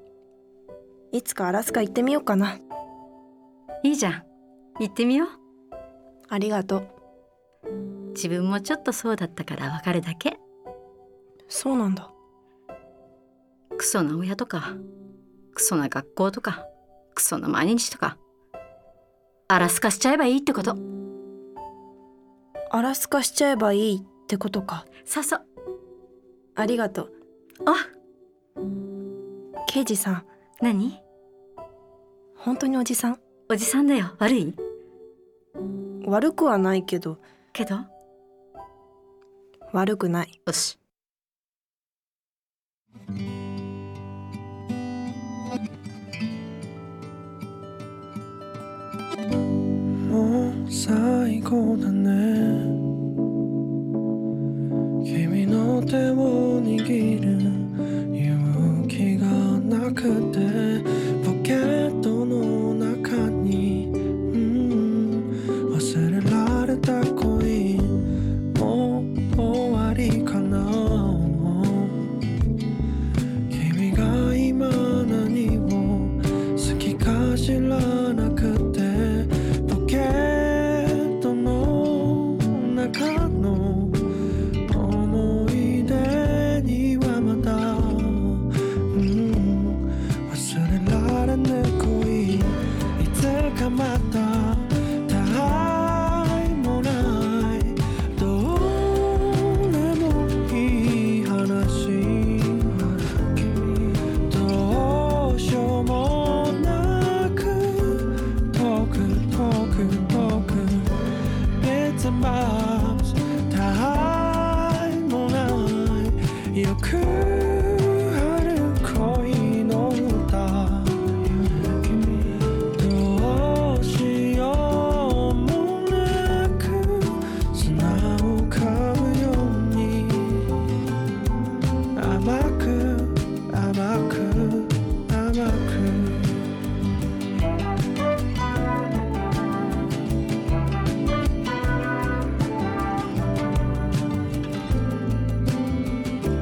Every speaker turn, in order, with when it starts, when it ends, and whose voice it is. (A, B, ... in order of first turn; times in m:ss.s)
0:01.1-0:02.6 A
0:03.8-0:04.2 B
0:04.8-0:05.3 B
0:06.3-0:06.9 A
0:08.1-0:10.4 B
0:11.5-0:12.1 A
0:13.8-0:14.8 B
0:15.5-0:18.2 B
0:19.5-0:20.8 B
0:22.7-0:24.8 A
0:25.1-0:25.4 B
0:26.6-0:27.1 A
0:29.6-0:30.3 A
0:30.6-0:31.0 B
0:32.4-0:33.2 A
0:33.5-0:34.6 B
0:36.0-0:37.2 A
0:37.5-0:37.9 B
0:39.7-0:40.3 A
0:40.5-0:40.8 B
0:50.1-0:52.8 C
0:55.0-1:12.1 C
1:13.5-1:24.1 C
1:24.7-1:43.4 C
1:44.2-2:02.2 C
2:02.7-2:10.5 C
2:12.0-2:16.4 C